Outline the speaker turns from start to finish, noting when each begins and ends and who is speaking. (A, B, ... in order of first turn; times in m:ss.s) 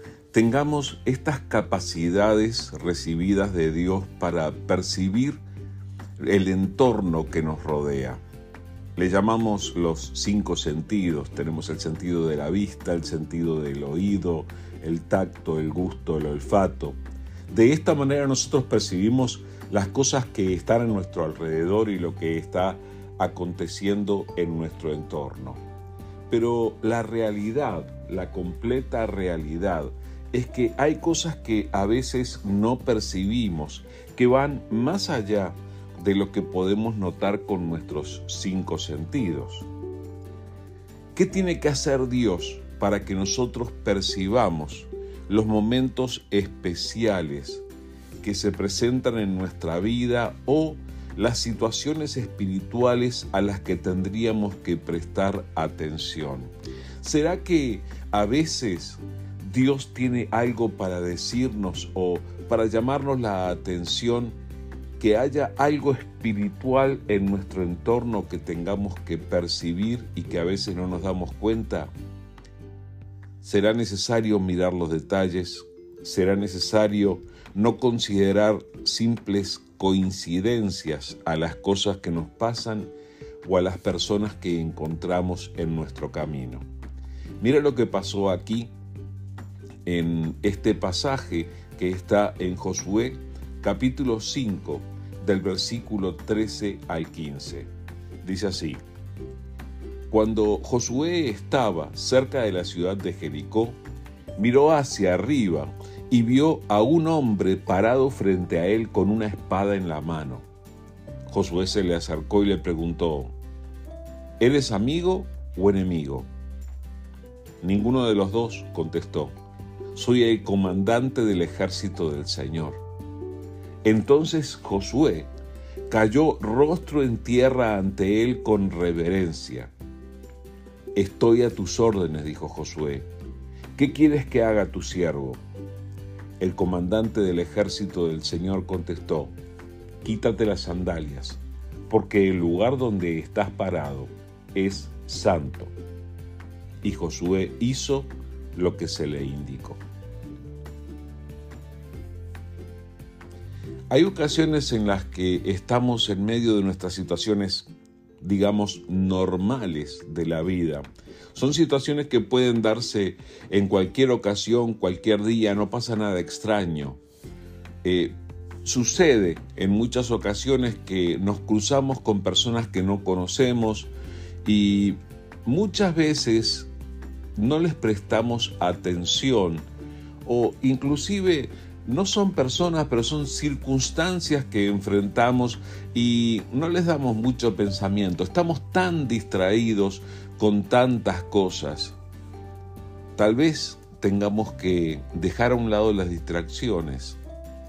0:00.3-0:05.4 A
0:06.2-0:08.2 A
0:09.0-0:17.0 A
0:17.5-0:25.6 A
0:26.3-0:39.7 A
0:41.2-0:47.6 A
0:48.2-1:04.4 A
1:05.0-1:11.9 A
1:13.4-1:22.9 A
1:23.4-1:26.6 A
1:27.4-1:28.7 A
1:29.9-1:37.7 A
1:38.2-1:38.8 A
1:40.1-1:43.8 A
1:44.4-1:50.5 A
1:51.3-1:53.3 A
1:54.4-1:56.3 A
1:57.6-1:59.3 A
1:59.9-2:02.8 A
2:03.8-2:05.3 A
2:05.9-2:09.7 A
2:11.0-2:13.1 A
2:13.8-2:15.4 A
2:16.4-2:19.4 A
2:20.0-2:25.7 A
2:26.8-2:29.8 A
2:33.9-2:47.0 A
2:47.8-2:53.9 A
2:54.4-2:56.7 A
2:57.4-2:59.7 A
3:00.2-3:12.0 A
3:13.2-3:17.2 A